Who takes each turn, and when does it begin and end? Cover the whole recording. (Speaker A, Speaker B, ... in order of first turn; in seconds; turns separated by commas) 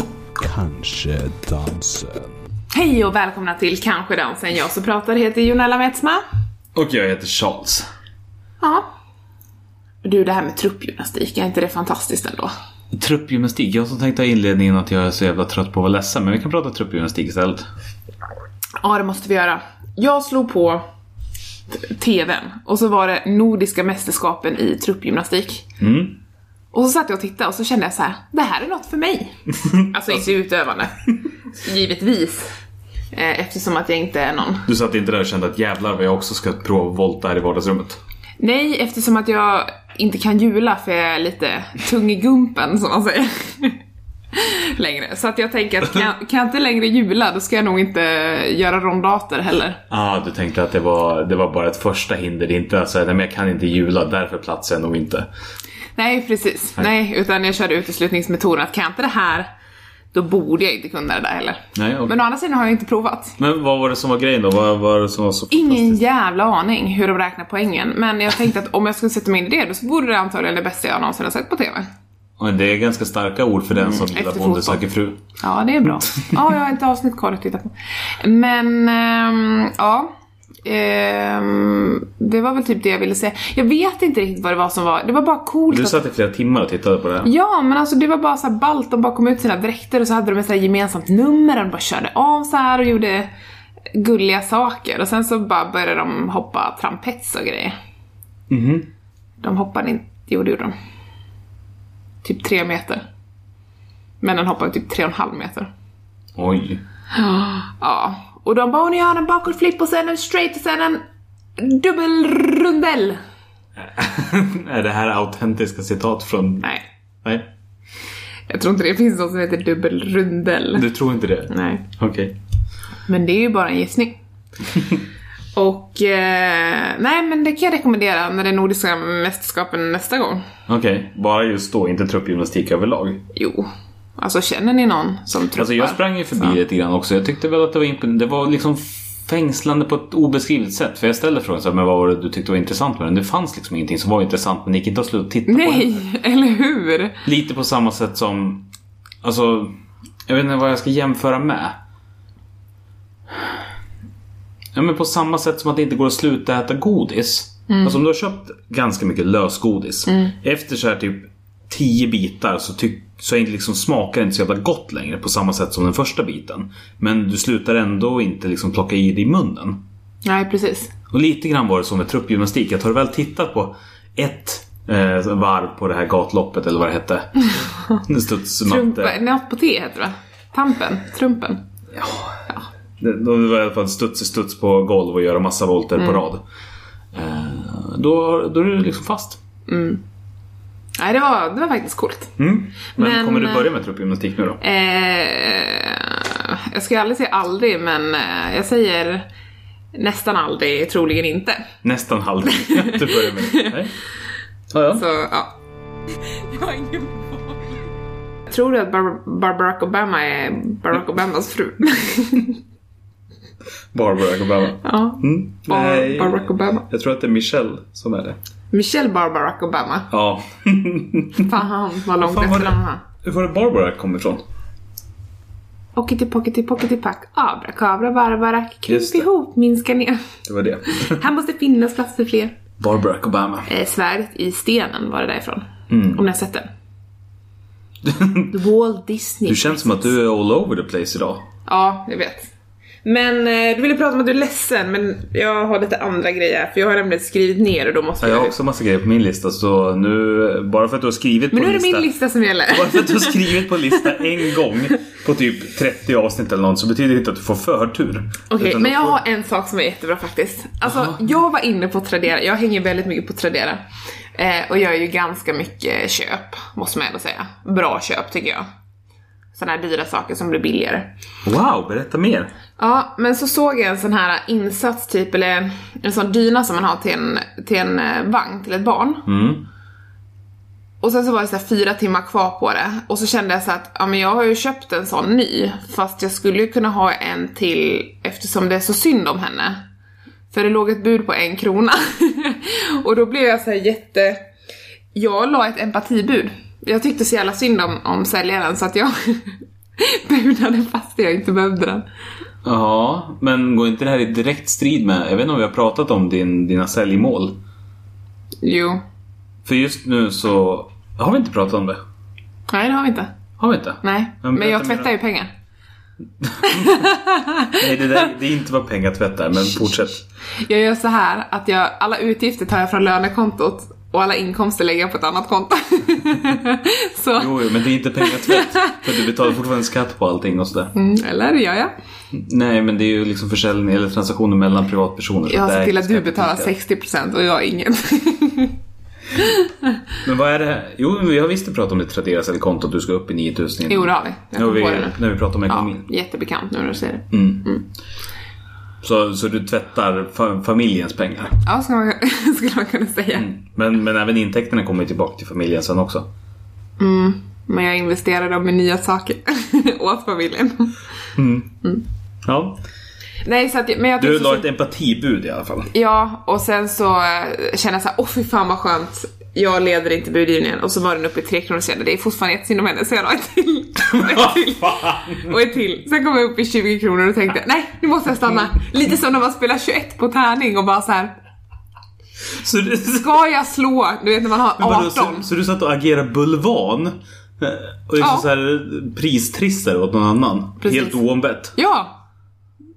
Speaker A: 0.4-2.4, Speaker B: 2.7-6.2, Speaker C: 6.8-7.8, Speaker B: 10.0-12.5, Speaker C: 12.9-17.7, Speaker B: 18.8-20.8, Speaker B: 21.7-25.7, Speaker C: 25.8-26.2, Speaker B: 26.7-32.5, Speaker B: 33.1-34.7, Speaker C: 34.7-38.0, Speaker B: 38.4-43.8, Speaker B: 44.3-49.8, Speaker C: 49.9-55.3, Speaker B: 56.0-59.5, Speaker B: 60.1-63.4, Speaker C: 61.8-62.1, Speaker C: 63.4-66.0, Speaker B: 65.5-71.9, Speaker C: 72.4-75.2, Speaker B: 73.9-74.8, Speaker B: 75.4-80.1, Speaker B: 80.7-86.0, Speaker C: 85.7-87.3, Speaker B: 87.2-93.3, Speaker B: 93.9-97.7, Speaker C: 98.5-98.9, Speaker B: 99.4-100.7, Speaker B: 102.2-103.0, Speaker B: 104.2-105.7, Speaker C: 106.4-106.8, Speaker B: 107.1-111.0, Speaker B: 111.6-113.2, Speaker C: 113.8-116.7, Speaker C: 117.2-117.5, Speaker B: 118.5-120.9, Speaker C: 120.8-122.4, Speaker B: 121.5-121.8, Speaker B: 123.1-124.2, Speaker B: 125.5-130.4, Speaker C: 130.7-133.2, Speaker B: 133.3-136.6, Speaker C: 135.6-146.0, Speaker B: 145.5-147.2, Speaker C: 147.2-148.7, Speaker C: 149.2-149.8, Speaker C: 150.3-151.8, Speaker C: 154.8-169.8, Speaker B: 157.7-158.0, Speaker B: 160.1-160.3, Speaker B: 170.2-170.9, Speaker C: 171.1-179.2, Speaker B: 178.7-181.6, Speaker C: 181.9-182.4, Speaker C: 183.0-186.4, Speaker C: 187.1-189.4, Speaker B: 189.7-190.0, Speaker B: 191.0-192.3, Speaker C: 192.4-194.6, Speaker B: 192.9-193.7, Speaker B: 194.6-199.3, Speaker B: 199.9-201.6, Speaker C: 201.8-203.9, Speaker B: 202.5-203.8, Speaker C: 204.7-205.0, Speaker B: 204.9-205.6, Speaker B: 206.3-207.7, Speaker B: 208.5-212.6, Speaker C: 213.9-218.4, Speaker B: 214.8-216.9, Speaker B: 218.7-220.1, Speaker C: 220.1-221.5, Speaker B: 221.4-223.0, Speaker C: 222.2-224.4, Speaker B: 226.0-230.2, Speaker C: 228.9-229.3, Speaker C: 230.5-231.2, Speaker B: 230.9-232.6, Speaker C: 232.8-233.7, Speaker B: 233.7-236.7, Speaker C: 235.9-236.2, Speaker C: 238.0-238.5, Speaker B: 238.5-240.1, Speaker C: 239.5-241.5, Speaker B: 241.7-242.5, Speaker B: 243.0-248.6, Speaker C: 248.2-252.1, Speaker B: 251.5-255.0, Speaker C: 252.7-259.2, Speaker B: 258.5-263.8, Speaker B: 264.4-268.7, Speaker B: 269.5-271.1, Speaker C: 271.4-272.5, Speaker B: 272.8-279.3, Speaker C: 279.3-279.7, Speaker B: 281.0-289.8, Speaker B: 290.5-294.5, Speaker B: 295.1-302.1, Speaker C: 302.6-307.6, Speaker B: 308.6-309.0, Speaker C: 309.6-312.0, Speaker B: 312.7-313.3, Speaker C: 313.6-315.1, Speaker B: 314.0-315.5, Speaker C: 316.4-317.1, Speaker B: 316.6-317.8, Speaker C: 317.7-320.2, Speaker B: 319.6-327.5, Speaker C: 327.4-330.9, Speaker B: 328.2-329.0, Speaker B: 330.9-331.9, Speaker C: 332.3-336.7, Speaker B: 335.5-338.8, Speaker B: 339.4-339.9, Speaker C: 340.2-346.0, Speaker B: 343.9-345.2, Speaker B: 345.7-347.9, Speaker C: 347.3-347.7, Speaker C: 349.0-351.6, Speaker B: 351.6-353.5, Speaker C: 353.4-356.3, Speaker B: 357.0-360.9, Speaker C: 361.4-361.7, Speaker C: 362.4-362.8, Speaker B: 363.4-364.7, Speaker C: 364.2-365.9, Speaker B: 365.9-381.3, Speaker C: 374.1-375.5, Speaker C: 382.6-383.3, Speaker B: 383.1-385.5, Speaker C: 384.8-391.8, Speaker B: 388.2-388.5, Speaker B: 390.8-391.2, Speaker B: 391.7-392.2